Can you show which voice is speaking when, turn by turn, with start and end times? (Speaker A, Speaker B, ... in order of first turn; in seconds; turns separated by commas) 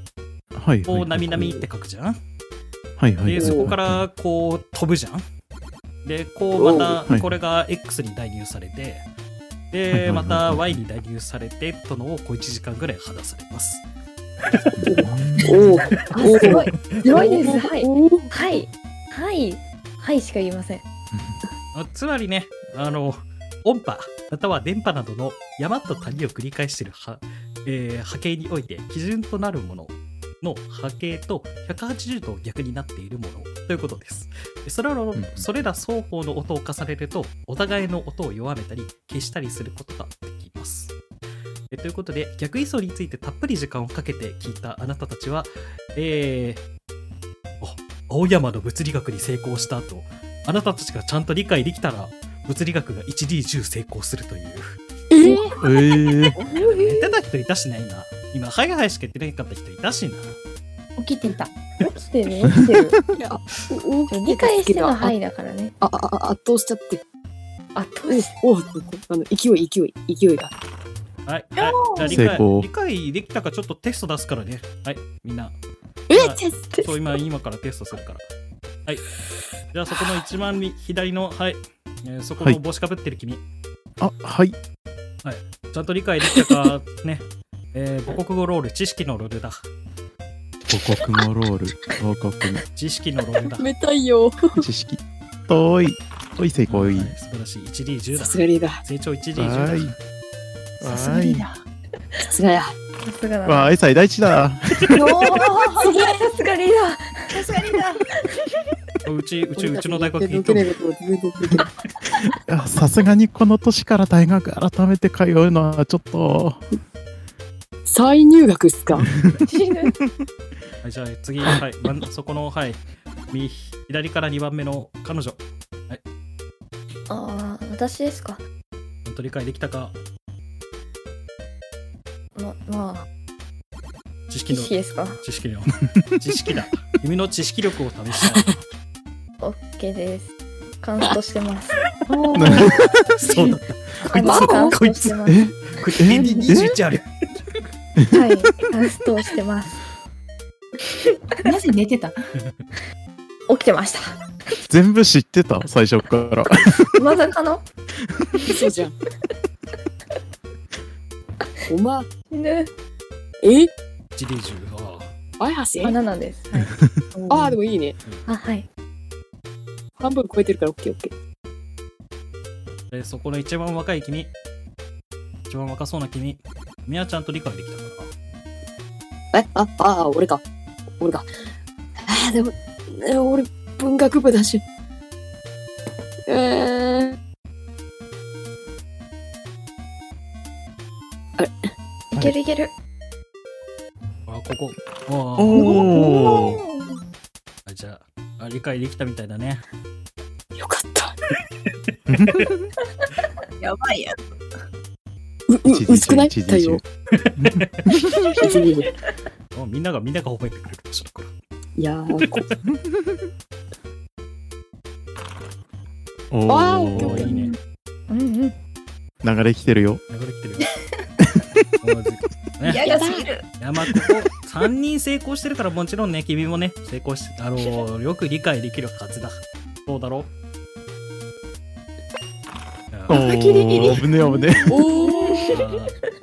Speaker A: 0.5-1.6, Speaker B: 0.9-2.2, Speaker A: 3.0-4.0, Speaker B: 3.2-5.2, Speaker C: 3.4-3.7, Speaker B: 6.0-9.1, Speaker C: 6.5-7.1, Speaker B: 9.7-13.8, Speaker A: 9.9-10.8, Speaker C: 14.7-18.3, Speaker A: 14.8-15.6, Speaker D: 16.0-20.8, Speaker B: 16.1-17.3, Speaker A: 21.1-21.4, Speaker B: 21.7-41.0, Speaker A: 35.1-35.5, Speaker B: 41.7-46.6, Speaker B: 47.6-54.8, Speaker C: 55.1-55.6, Speaker B: 55.3-60.4, Speaker A: 55.6-56.4, Speaker D: 56.4-57.2, Speaker E: 61.0-61.5, Speaker D: 61.9-63.0, Speaker C: 63.1-65.2, Speaker D: 64.1-65.8, Speaker C: 65.8-67.0, Speaker D: 67.8-68.3, Speaker C: 68.1-70.5, Speaker B: 71.3-75.6, Speaker E: 71.6-72.3, Speaker A: 72.1-72.7, Speaker C: 76.1-76.7, Speaker B: 76.1-78.3, Speaker B: 79.7-83.4, Speaker A: 84.0-84.5, Speaker B: 85.2-89.7, Speaker A: 90.7-92.6, Speaker B: 92.8-93.7, Speaker C: 93.6-94.7, Speaker A: 94.5-97.1, Speaker B: 96.7-100.0, Speaker C: 98.2-98.8, Speaker A: 99.4-99.9, Speaker A: 100.8-101.5, Speaker E: 100.8-101.6, Speaker C: 102.2-102.8, Speaker D: 103.0-103.8, Speaker A: 103.5-105.2, Speaker D: 104.9-107.5, Speaker E: 105.1-106.2, Speaker E: 107.3-108.0, Speaker B: 109.0-110.8, Speaker C: 109.6-111.7, Speaker A: 112.4-116.6, Speaker C: 117.8-119.1, Speaker D: 119.5-120.0, Speaker B: 120.8-126.0, Speaker D: 127.1-128.4, Speaker B: 129.1-130.0, Speaker D: 132.4-133.1, Speaker B: 134.3-138.5, Speaker D: 134.5-135.2, Speaker A: 135.9-136.2, Speaker D: 139.4-142.9, Speaker A: 142.3-143.0, Speaker B: 143.2-147.1, Speaker D: 144.1-145.5, Speaker C: 144.1-144.8, Speaker A: 145.2-146.8, Speaker D: 146.2-146.5, Speaker A: 148.0-148.3, Speaker D: 148.1-149.8, Speaker E: 151.4-152.2, Speaker B: 152.4-152.7, Speaker D: 153.5-154.2, Speaker A: 154.7-157.1, Speaker D: 156.9-157.6, Speaker D: 158.4-158.7, Speaker C: 158.5-158.9, Speaker C: 161.7-162.1, Speaker D: 162.3-162.7, Speaker C: 163.4-163.7, Speaker B: 164.2-165.1, Speaker C: 165.4-166.0, Speaker D: 165.8-166.8, Speaker E: 167.3-167.5, Speaker C: 167.3-168.0, Speaker D: 168.3-168.7, Speaker C: 170.0-171.1, Speaker B: 172.9-174.3, Speaker B: 175.5-178.1, Speaker C: 179.3-180.4, Speaker C: 181.0-181.3, Speaker C: 182.0-184.6, Speaker C: 186.3-187.2, Speaker D: 192.1-192.7, Speaker B: 194.3-196.3, Speaker A: 195.4-196.6, Speaker D: 195.5-197.0, Speaker B: 197.7-199.6, Speaker C: 200.6-201.2, Speaker A: 202.1-202.6, Speaker E: 203.6-204.2, Speaker C: 205.5-206.8, Speaker A: 205.7-206.8, Speaker B: 207.1-207.8, Speaker A: 207.4-207.7, Speaker C: 208.4-208.9, Speaker D: 208.4-208.7, Speaker B: 209.5-211.3, Speaker C: 211.8-212.5, Speaker B: 212.2-212.6, Speaker A: 212.7-213.2, Speaker A: 216.3-217.3, Speaker C: 216.5-217.6, Speaker B: 217.0-217.6, Speaker D: 218.1-218.6, Speaker A: 219.2-220.0, Speaker B: 220.1-220.7, Speaker B: 221.8-222.8, Speaker E: 222.7-223.4, Speaker C: 222.8-223.2, Speaker D: 222.9-223.2, Speaker B: 223.6-230.3, Speaker B: 232.9-233.2, Speaker A: 233.1-234.8, Speaker D: 233.1-235.7, Speaker C: 234.7-235.3, Speaker B: 235.5-235.9